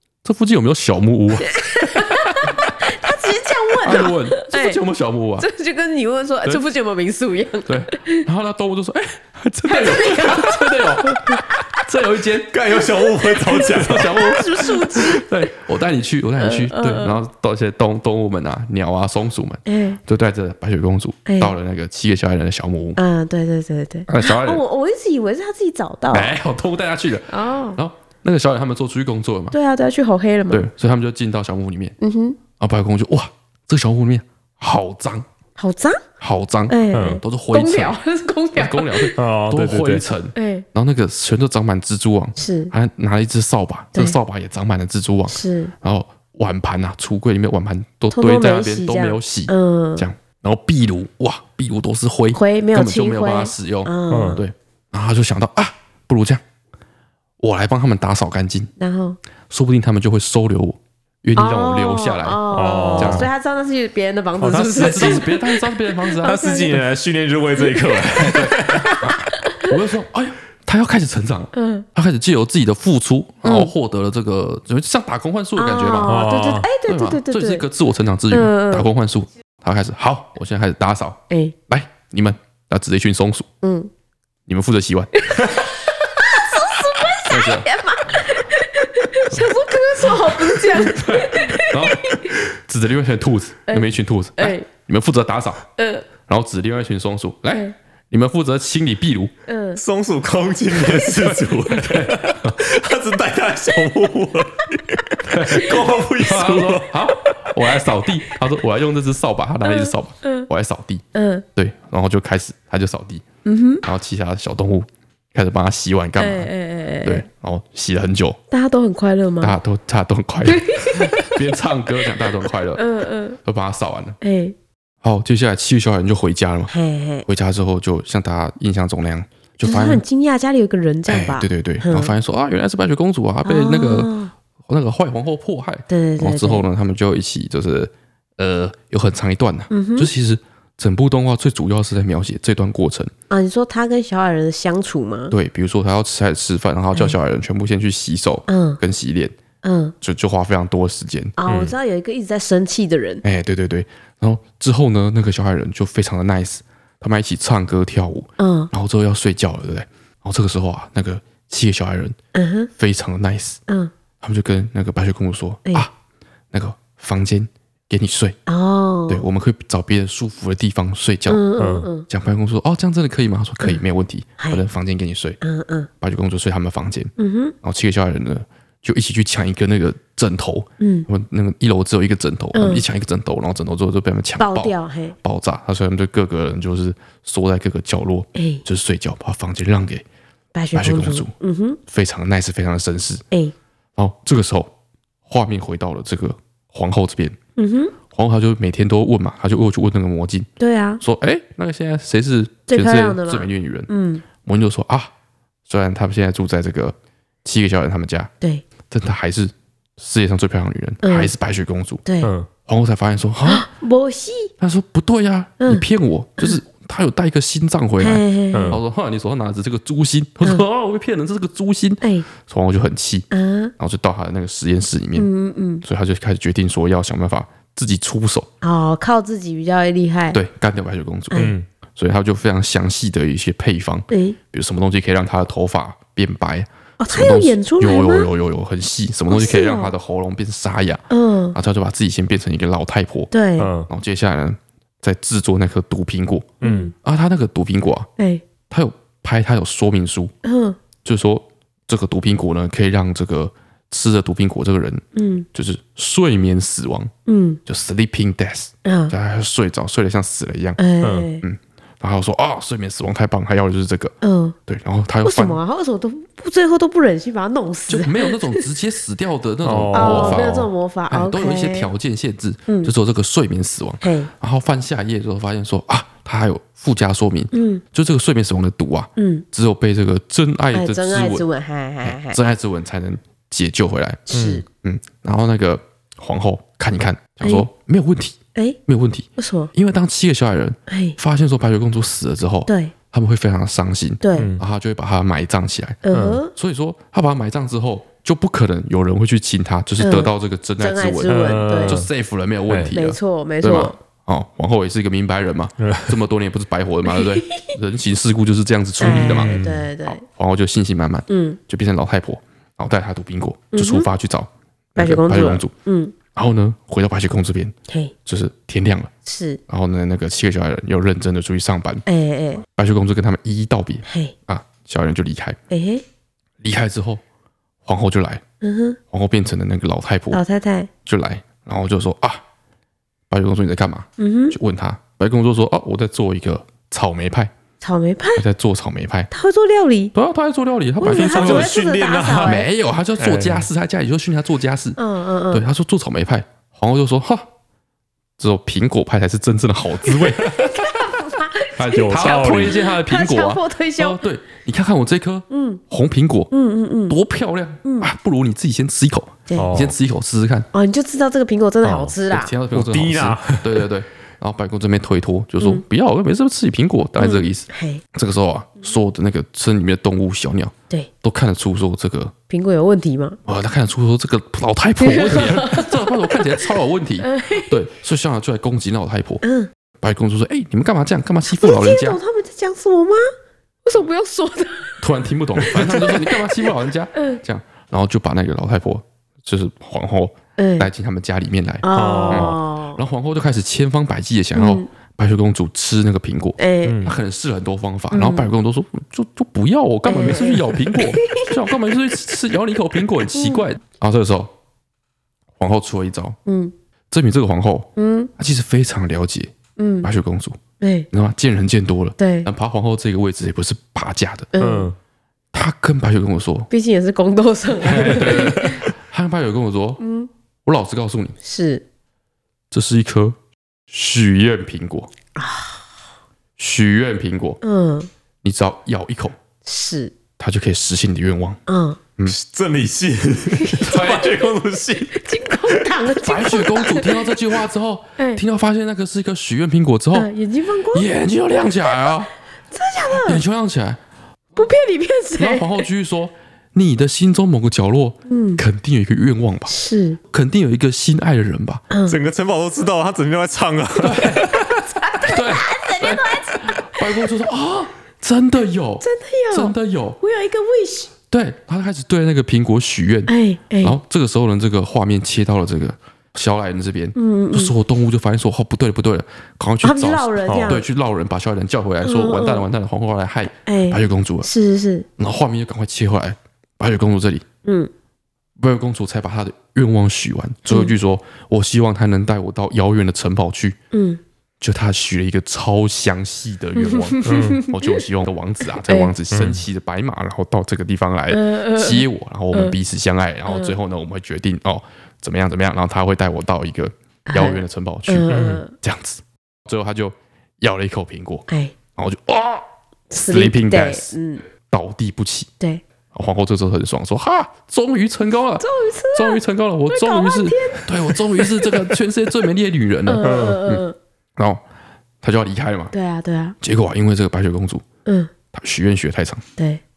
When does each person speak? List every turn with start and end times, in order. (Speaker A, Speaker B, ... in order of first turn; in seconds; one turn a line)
Speaker A: 0.2-2.7
Speaker B: 1.4-4.8
Speaker A: 3.8-5.5
Speaker B: 5.4-8.3
Speaker A: 7.7-12.6
Speaker B: 9.7-11.8
Speaker C: 12.5-14.2
Speaker B: 12.8-15.3
Speaker A: 13.7-23.0
Speaker B: 16.4-17.2
Speaker B: 19.7-20.0
Speaker B: 21.3-21.5
Speaker B: 23.0-26.3
Speaker A: 24.1-24.6
Speaker A: 26.1-29.6
Speaker B: 27.3-27.8
Speaker B: 29.5-30.7
Speaker A: 30.5-32.0
Speaker B: 32.0-32.4
Speaker A: 32.6-35.3
Speaker B: 35.6-36.0
Speaker A: 36.2-38.0
Speaker B: 36.7-39.2
Speaker C: 36.9-37.2
Speaker A: 38.5-56.4
Speaker C: 39.2-40.0
Speaker B: 40.4-40.7
Speaker B: 42.4-42.7
Speaker B: 45.3-45.7
Speaker B: 48.1-50.1
Speaker B: 52.3-54.4
Speaker C: 54.1-54.4
Speaker A: 57.4-58.7
Speaker B: 58.8-59.2
Speaker A: 59.5-62.4
Speaker B: 61.4-66.8
Speaker C: 62.5-63.3
Speaker A: 62.9-63.3
Speaker C: 64.4-65.4
Speaker A: 64.6-66.8
Speaker C: 66.2-69.0
Speaker B: 67.6-69.7
Speaker A: 68.2-76.2
Speaker B: 71.5-71.9
Speaker B: 73.4-73.7
Speaker B: 75.6-77.7
Speaker C: 76.0-76.7
Speaker A: 76.8-83.5
Speaker B: 78.3-78.9
Speaker B: 81.3-81.5
Speaker B: 83.6-83.9
Speaker A: 84.5-85.1
Speaker B: 85.2-92.4
Speaker A: 87.2-87.7
Speaker A: 90.7-95.7
Speaker B: 93.7-94.7
Speaker B: 95.8-96.1
Speaker A: 96.3-99.3
Speaker B: 99.5-99.8
Speaker C: 99.8-107.6
Speaker A: 101.0-102.6
Speaker A: 105.3-111.0
Speaker B: 109.6-110.5
Speaker B: 111.1-111.5
Speaker A: 111.6-113.2
Speaker B: 113.5-113.8
Speaker A: 113.8-116.5
Speaker B: 116.2-117.2
Speaker A: 117.0-118.4
Speaker B: 118.5-119.6
Speaker A: 119.4-122.8
Speaker B: 120.5-121.4
Speaker B: 122.8-123.4
Speaker A: 123.4-124.2
Speaker B: 124.2-124.5
Speaker A: 125.0-126.7
Speaker B: 126.7-127.3
Speaker A: 127.3-130.0
Speaker B: 129.6-132.1
Speaker A: 131.1-134.1
Speaker B: 133.4-134.3
Speaker A: 134.7-143.1
Speaker B: 135.9-136.7
Speaker B: 139.7-140.1
Speaker B: 143.3-145.3
Speaker A: 145.3-149.4
Speaker B: 148.5-148.8
Speaker B: 149.6-149.9
Speaker A: 150.0-151.3
Speaker B: 151.4-153.2
Speaker C: 151.5-151.8
Speaker A: 153.2-162.2
Speaker B: 158.4-158.7
Speaker B: 162.3-162.7
Speaker A: 162.8-163.6
Speaker A: 164.2-165.9
Speaker A: 166.5-168.4
Speaker B: 168.5-169.2
Speaker A: 169.1-171.4
Speaker B: 171.3-172.1
Speaker C: 171.6-171.9
Speaker A: 172.1-175.4
Speaker B: 175.4-175.9
Speaker A: 176.0-190.1
Speaker B: 177.2-177.6
Speaker B: 180.8-181.1
Speaker B: 182.5-182.8
Speaker B: 184.4-185.2
Speaker B: 188.3-188.6
Speaker B: 190.6-191.8
Speaker A: 190.7-191.3
Speaker A: 191.9-193.2
Speaker A: 194.0-194.7
Speaker A: 195.3-197.4
Speaker B: 197.6-197.9
Speaker A: 198.1-200.5
Speaker B: 200.6-201.0
Speaker A: 201.0-203.9
Speaker B: 202.7-204.2
Speaker A: 204.4-205.1
Speaker A: 205.7-208.3
Speaker A: 208.9-212.1
Speaker B: 211.0-211.3
Speaker B: 212.1-212.3
Speaker C: 212.2-212.5
Speaker A: 212.7-213.7
Speaker B: 213.5-214.5
Speaker A: 214.6-223.3
Speaker B: 215.6-215.8
Speaker B: 218.0-218.8
Speaker C: 218.5-218.8
Speaker B: 222.0-222.3
Speaker B: 223.3-223.7
Speaker A: 223.8-225.3
Speaker B: 225.2-225.8
Speaker A: 225.8-228.5
Speaker B: 228.6-230.4
Speaker A: 230.3-243.3
Speaker C: 231.4-231.7
Speaker B: 234.1-234.4
Speaker B: 237.0-238.3
Speaker B: 239.3-239.9
Speaker B: 241.1-241.6
Speaker B: 243.3-243.7
Speaker C: 243.6-243.9
Speaker A: 243.9-248.1
Speaker C: 246.6-246.9
Speaker B: 246.6-246.9
Speaker B: 248.2-248.4
Speaker A: 248.7-250.3
Speaker B: 250.4-250.8
Speaker A: 251.0-257.1
Speaker B: 255.2-255.5
Speaker B: 257.3-257.6
Speaker A: 257.7-260.8
Speaker B: 258.9-259.1
Speaker B: 260.8-261.4
Speaker C: 261.0-261.3
Speaker A: 261.4-264.2
Speaker B: 264.2-264.6
Speaker A: 264.7-265.6
Speaker B: 265.2-268.6
Speaker A: 267.9-281.5
Speaker C: 269.6-270.6
Speaker B: 269.9-271.9
Speaker B: 272.7-272.9
Speaker B: 274.0-274.3
Speaker B: 277.5-277.8
Speaker B: 279.2-279.4
Speaker B: 280.7-282.4
Speaker A: 282.0-284.3
Speaker B: 284.3-284.6
Speaker C: 284.3-284.6
Speaker A: 284.8-315.7
Speaker B: 287.4-287.7
Speaker B: 289.4-289.7
Speaker B: 290.9-291.2
Speaker B: 292.7-292.9
Speaker B: 294.2-294.5
Speaker C: 294.4-294.6
Speaker B: 296.0-296.5
Speaker C: 296.1-296.4
Speaker B: 300.0-302.0
Speaker C: 301.3-302.1
Speaker B: 302.9-304.0
Speaker C: 305.8-306.1
Speaker B: 307.1-307.7
Speaker C: 309.0-309.8
Speaker B: 309.0-310.2
Speaker B: 311.3-311.6
Speaker B: 313.7-314.1
Speaker B: 315.0-316.1
Speaker A: 316.3-319.1
Speaker B: 317.9-318.1
Speaker B: 319.2-319.6
Speaker A: 319.7-322.0
Speaker B: 322.1-322.6
Speaker A: 322.6-325.6
Speaker B: 324.1-324.3
Speaker B: 325.7-326.0
Speaker A: 326.6-327.2
Speaker A: 327.9-328.4
Speaker B: 328.6-329.0
Speaker A: 329.1-330.4
Speaker B: 330.3-330.9
Speaker A: 331.1-332.4
Speaker A: 333.3-337.5
Speaker B: 334.2-334.6
Speaker B: 337.8-338.4
Speaker A: 338.4-339.3
Speaker B: 339.3-340.1
Speaker A: 340.1-341.8
Speaker B: 341.0-342.7
Speaker C: 341.1-342.6
Speaker A: 342.4-345.0
Speaker C: 343.2-343.7
Speaker B: 345.0-345.6
Speaker A: 345.5-347.5
Speaker A: 348.4-350.7
Speaker B: 350.1-354.2
Speaker C: 350.4-350.7
Speaker A: 351.8-356.5
Speaker C: 351.9-352.8
Speaker B: 355.5-355.8
Speaker B: 356.5-357.2
Speaker A: 357.1-360.7
Speaker B: 357.8-358.1
Speaker C: 359.6-359.9
Speaker B: 360.7-362.5
Speaker C: 361.8-362.2
Speaker A: 362.3-372.3
Speaker C: 362.7-363.9
Speaker B: 367.2-368.0
Speaker B: 372.5-373.4
Speaker A: 373.5-379.4
Speaker B: 375.0-376.4
Speaker B: 377.2-377.8
Speaker B: 379.4-379.7
Speaker A: 380.0-382.2
Speaker B: 381.5-383.3
Speaker B: 383.9-385.0
Speaker A: 385.0-404.5
Speaker B: 385.6-386.5
Speaker B: 387.1-387.4
Speaker B: 390.6-390.9
Speaker B: 391.8-393.0
Speaker C: 391.9-392.6
Speaker B: 394.6-394.9
Speaker B: 396.6-397.0
Speaker C: 396.9-397.2
Speaker B: 398.1-398.5
Speaker B: 400.1-401.5
Speaker B: 403.3-403.6
Speaker A: 405.6-406.4
Speaker B: 406.5-406.7
Speaker A: 407.1-410.6
Speaker B: 408.0-408.3
Speaker B: 409.8-410.1
Speaker B: 410.8-411.1
Speaker A: 411.1-414.5
Speaker B: 412.2-412.5
Speaker B: 414.5-414.9
Speaker C: 414.6-414.9
Speaker A: 415.5-416.7
Speaker B: 416.7-418.8
Speaker A: 417.8-420.0
Speaker C: 418.2-418.8
Speaker B: 420.0-420.3
Speaker A: 420.6-421.4
Speaker B: 421.4-421.8
Speaker A: 422.7-423.4
Speaker A: 423.9-425.1
Speaker B: 425.4-425.8
Speaker A: 426.6-427.6
Speaker B: 427.6-428.1
Speaker A: 428.4-429.4
Speaker B: 429.6-430.1
Speaker A: 430.4-431.6
Speaker B: 431.7-432.0
Speaker C: 432.3-436.0
Speaker B: 433.6-434.1
Speaker A: 433.8-434.5
Speaker B: 435.1-437.2
Speaker A: 436.2-440.3
Speaker B: 438.2-438.4
Speaker B: 440.1-441.1
Speaker A: 440.9-442.3
Speaker B: 441.9-443.4
Speaker A: 443.2-444.0
Speaker B: 444.6-445.9
Speaker A: 445.4-449.7
Speaker B: 448.3-448.6
Speaker B: 449.7-450.2
Speaker A: 450.3-451.9
Speaker B: 451.9-452.2
Speaker C: 452.1-454.7
Speaker A: 454.0-460.2
Speaker B: 454.6-457.2
Speaker B: 459.0-461.1
Speaker A: 461.3-474.5
Speaker B: 463.3-464.0
Speaker B: 467.2-467.7
Speaker B: 469.8-470.9
Speaker C: 470.5-470.8
Speaker B: 472.0-472.7
Speaker B: 473.7-475.1
Speaker A: 475.2-477.4
Speaker B: 477.6-477.9
Speaker A: 478.6-483.8
Speaker B: 483.9-484.2
Speaker A: 484.6-502.6
Speaker B: 486.8-488.1
Speaker C: 487.2-487.6
Speaker B: 488.8-489.1
Speaker C: 489.3-489.6
Speaker B: 491.3-492.8
Speaker B: 493.5-493.8
Speaker B: 497.3-498.7
Speaker C: 498.3-498.6
Speaker B: 501.5-501.7
Speaker B: 503.1-504.5
Speaker A: 503.2-505.5
Speaker A: 506.1-513.9
Speaker B: 508.6-511.6
Speaker B: 513.1-514.0
Speaker C: 513.2-513.6
Speaker A: 514.4-514.6
Speaker A: 515.2-515.9
Speaker B: 515.9-516.6
Speaker A: 516.6-517.9
Speaker B: 518.0-518.3
Speaker A: 518.5-519.4
Speaker B: 519.6-519.8